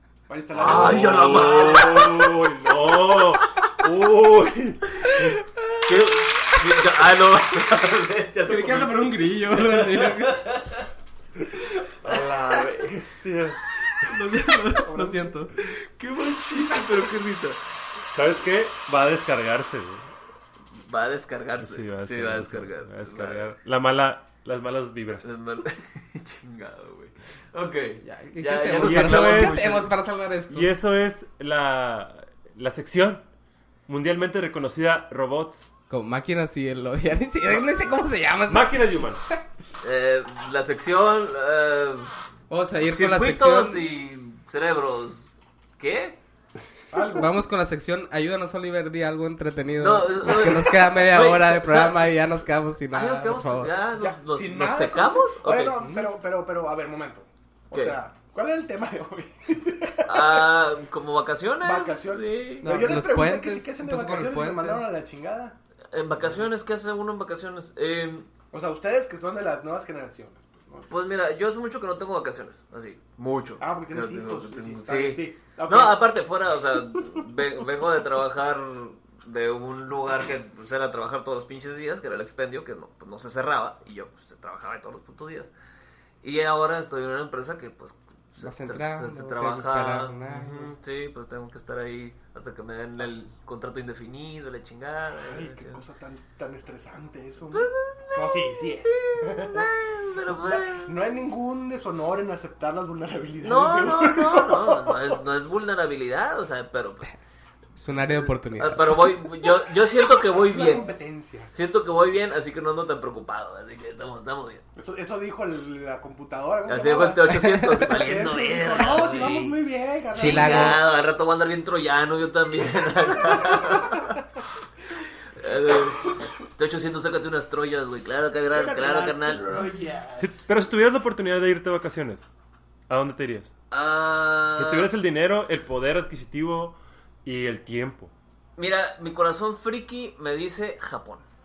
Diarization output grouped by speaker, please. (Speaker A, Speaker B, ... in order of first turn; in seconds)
Speaker A: 0.3-2.0, 14.8-15.3, 46.9-47.4, 54.0-60.5, 61.6-65.6, 68.5-70.9, 73.6-76.1, 95.2-99.7, 100.3-105.2, 110.1-111.5, 114.8-120.8, 123.5-124.0, 128.5-130.4
Speaker B: 0.6-2.3, 5.9-10.8, 16.0-17.6, 20.9-23.5, 25.2-29.9, 39.8-42.1, 42.9-46.2, 49.8-55.8, 57.7-58.0, 60.1-62.7, 65.9-68.3, 70.9-85.5, 86.2-95.8, 97.5-100.9, 103.4-107.1, 108.6-110.9, 111.5-114.6, 116.7-119.6, 120.1-124.2, 125.4-129.5, 133.7-134.9, 138.6-141.2
Speaker C: 0.6-5.4, 12.0-13.6, 18.1-20.1, 21.6-25.4, 28.7-29.9, 30.5-33.2, 33.9-35.7, 38.5-39.2, 130.2-132.3, 132.9-133.5, 134.6-138.1
Speaker D: 8.4-10.4, 14.0-15.6, 16.5-16.8, 28.0-30.7, 35.9-39.1, 42.5-43.8, 47.1-53.7, 55.8-56.1, 62.6-64.9, 88.4-90.8, 107.8-109.2, 117.3-117.7, 120.1-120.8